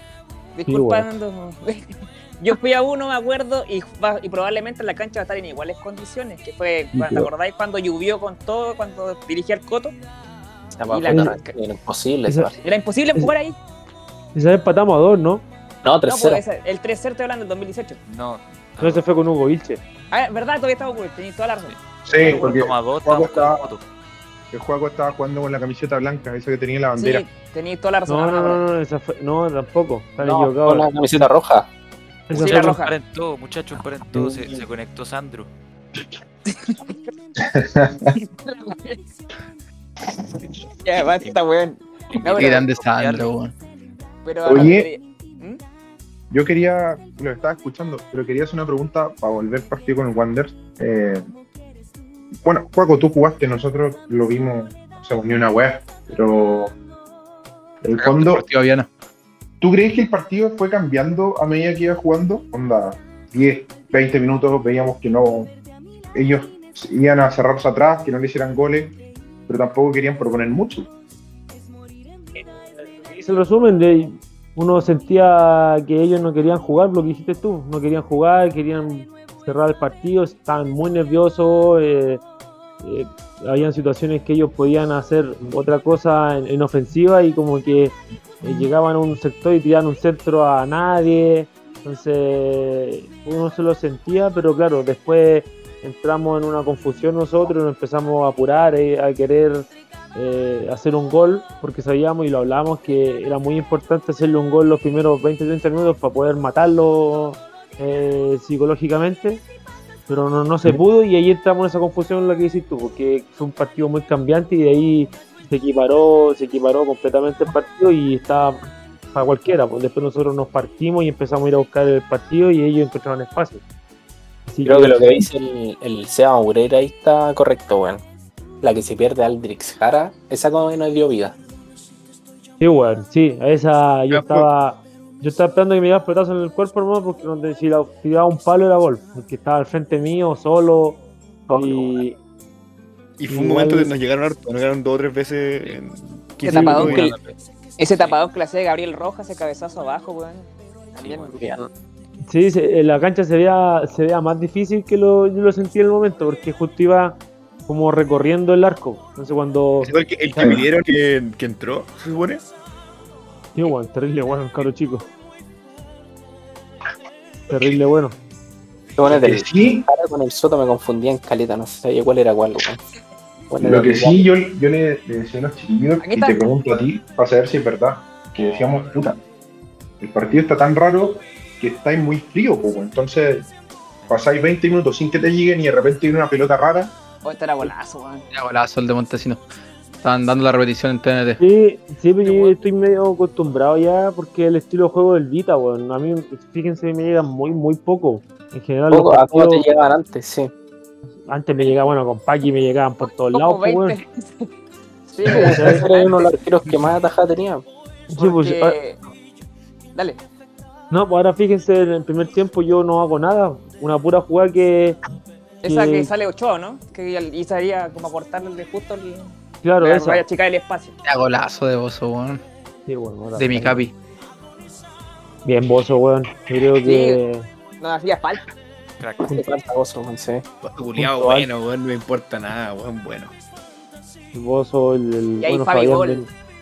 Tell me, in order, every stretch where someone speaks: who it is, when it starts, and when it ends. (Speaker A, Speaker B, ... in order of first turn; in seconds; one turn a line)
Speaker A: 0.6-10.0
Speaker B: 0.7-1.1
Speaker B: 6.9-7.3
Speaker C: 10.8-12.6
Speaker A: 10.9-11.5
Speaker B: 12.3-12.5
Speaker A: 12.6-13.6
Speaker B: 14.3-15.4
Speaker C: 15.8-16.4
Speaker A: 16.0-18.0
Speaker D: 18.1-19.1
Speaker B: 18.8-19.8
Speaker A: 20.1-22.6
Speaker D: 21.6-23.8
Speaker E: 22.1-23.7
Speaker E: 24.5-27.2
Speaker A: 27.0-28.6
Speaker B: 28.1-31.3
Speaker C: 30.2-31.7
Speaker B: 32.3-32.8
Speaker A: 32.3-33.0
Speaker D: 32.4-35.5
Speaker B: 34.1-34.5
Speaker A: 36.5-36.7
Speaker E: 37.4-38.1
Speaker A: 37.9-39.0
Speaker A: 40.8-42.7
Speaker D: 42.1-43.3
Speaker F: 42.4-43.5
Speaker A: 44.2-45.6
Speaker E: 44.5-44.9
Speaker E: 46.3-51.2
Speaker E: 52.4-56.8
Speaker E: 57.8-58.4
Speaker F: 58.0-58.9
Speaker E: 59.6-65.5
Speaker E: 66.1-69.0
Speaker E: 69.5-70.9
Speaker B: 72.4-82.2
Speaker B: 82.8-109.4
Speaker B: 110.1-123.6
Speaker B: 124.5-125.2
Speaker C: 124.7-128.0
Speaker C: 128.6-131.4
Speaker B: 132.6-141.0
Speaker G: 134.1-134.5
Speaker C: 141.5-142.0
Speaker B: 141.5-142.2
Speaker G: 143.2-147.1
Speaker B: 143.3-143.9
Speaker A: 146.4-147.1
Speaker B: 146.5-146.8
Speaker D: 146.5-147.4
Speaker C: 146.7-147.1
Speaker A: 147.8-151.5
Speaker D: 151.0-151.4
Speaker C: 151.4-151.7
Speaker B: 152.3-159.9
Speaker G: 159.8-162.4
Speaker E: 160.4-160.6
Speaker B: 163.6-165.1
Speaker B: 167.5-168.2
Speaker C: 169.0-172.8
Speaker E: 169.1-169.9
Speaker C: 173.5-174.2
Speaker E: 173.6-179.2
Speaker A: 176.0-176.4
Speaker D: 178.4-179.0
Speaker E: 180.0-183.5
Speaker D: 184.0-184.3
Speaker E: 184.1-186.9
Speaker A: 187.2-188.3
Speaker F: 188.3-189.4
Speaker F: 190.0-191.4
Speaker B: 191.4-199.7
Speaker A: 192.2-192.6
Speaker C: 198.9-200.5
Speaker B: 201.3-204.0
Speaker A: 203.0-204.5
Speaker A: 205.1-206.4
Speaker C: 205.3-207.7
Speaker B: 205.5-205.8
Speaker B: 208.1-208.8
Speaker A: 208.2-209.0
Speaker A: 209.9-210.2
Speaker B: 210.9-215.0
Speaker A: 215.6-221.0
Speaker B: 215.7-216.1
Speaker B: 219.6-220.2
Speaker F: 221.0-222.4
Speaker B: 222.9-223.8
Speaker F: 223.4-223.9
Speaker B: 225.4-227.5
Speaker A: 226.8-227.2
Speaker A: 227.8-228.5
Speaker D: 229.0-229.3
Speaker C: 229.2-230.4
Speaker G: 230.6-233.3
Speaker B: 231.0-231.5
Speaker B: 234.3-236.3
Speaker A: 235.4-236.3